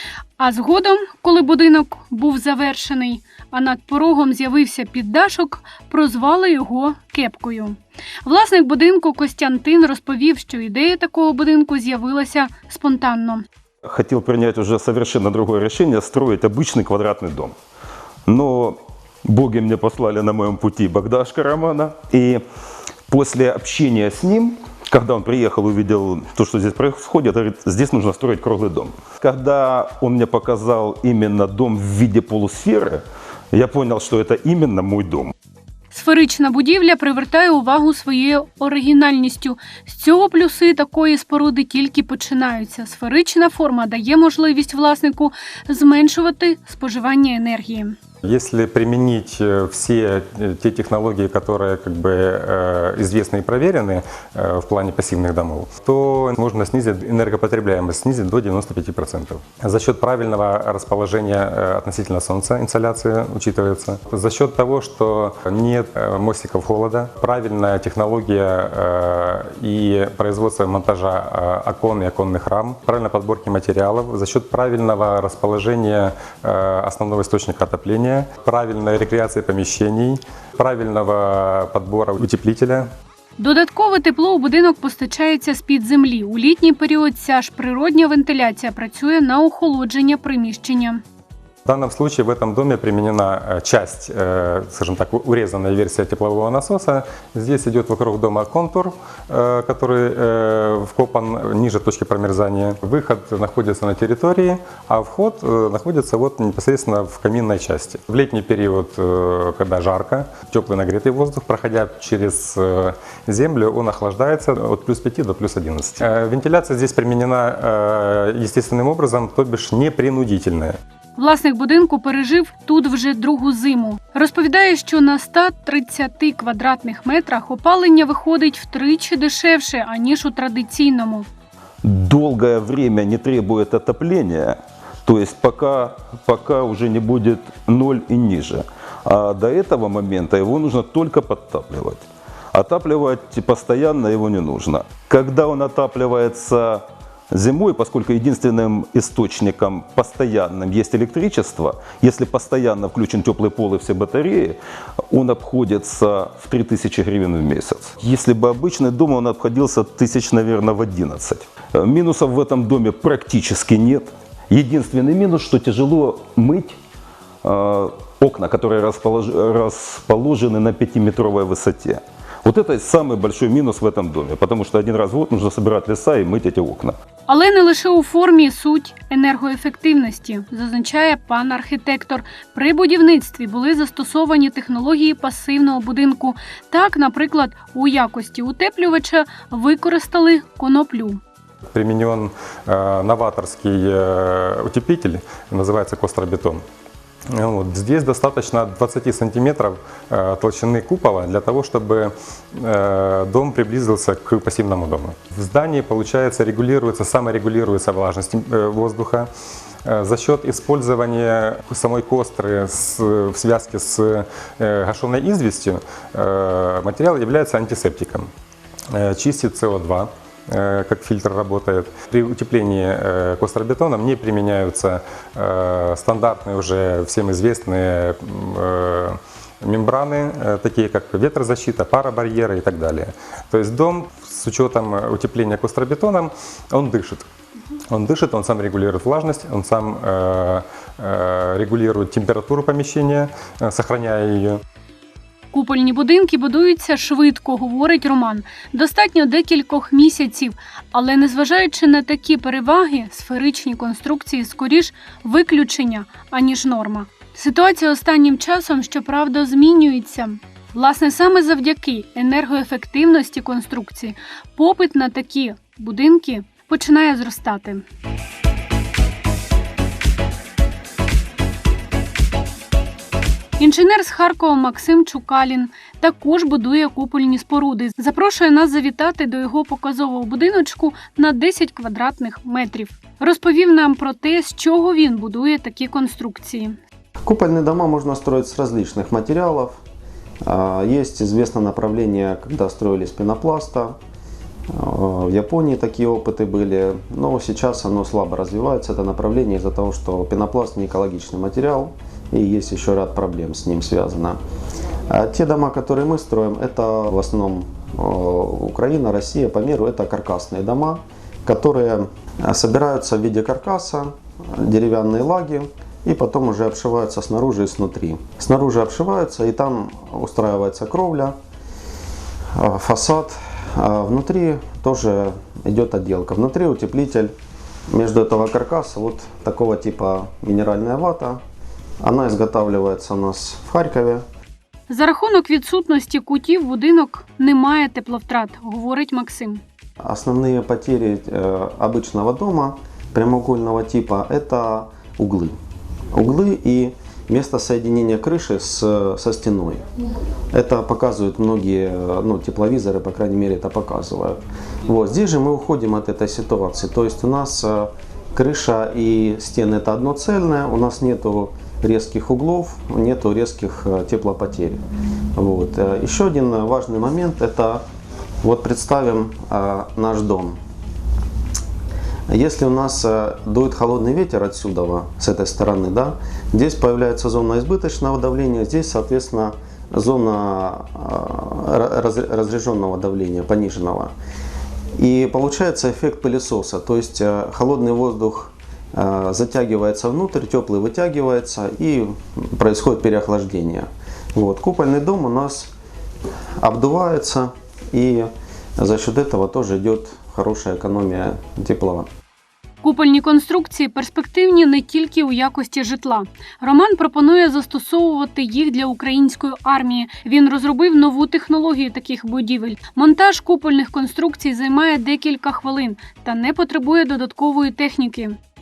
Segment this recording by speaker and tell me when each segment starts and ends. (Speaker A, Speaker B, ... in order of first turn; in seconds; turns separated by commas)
Speaker A: 0.4-13.4, Speaker B: 13.8-17.5, Speaker B: 18.3-22.4, Speaker B: 23.1-35.3, Speaker A: 35.9-48.0, Speaker C: 48.2-82.9, Speaker A: 83.4-91.0, Speaker C: 91.7-120.8, Speaker A: 121.2-131.3, Speaker B: 131.8-154.6, Speaker B: 155.1-166.8, Speaker B: 167.4-176.9, Speaker A: 177.3-191.2, Speaker C: 191.7-196.6, Speaker C: 197.3-209.3, Speaker C: 209.8-218.3, Speaker C: 218.9-237.3, Speaker C: 237.9-244.6, Speaker A: 245.5-267.9, Speaker A: 273.6-286.8, Speaker D: 287.3-289.8, Speaker D: 290.4-294.0, Speaker D: 294.7-304.4, Speaker D: 305.1-321.4, Speaker D: 322.6-327.3, Speaker D: 327.9-331.4, Speaker D: 332.0-334.2, Speaker A: 334.9-339.6, Speaker D: 340.0-345.6, Speaker D: 346.1-349.9, Speaker D: 350.5-364.8, Speaker D: 365.4-367.8, Speaker D: 368.4-370.6, Speaker D: 372.3-384.1, Speaker D: 385.0-395.7, Speaker D: 396.6-402.1, Speaker A: 402.8-418.4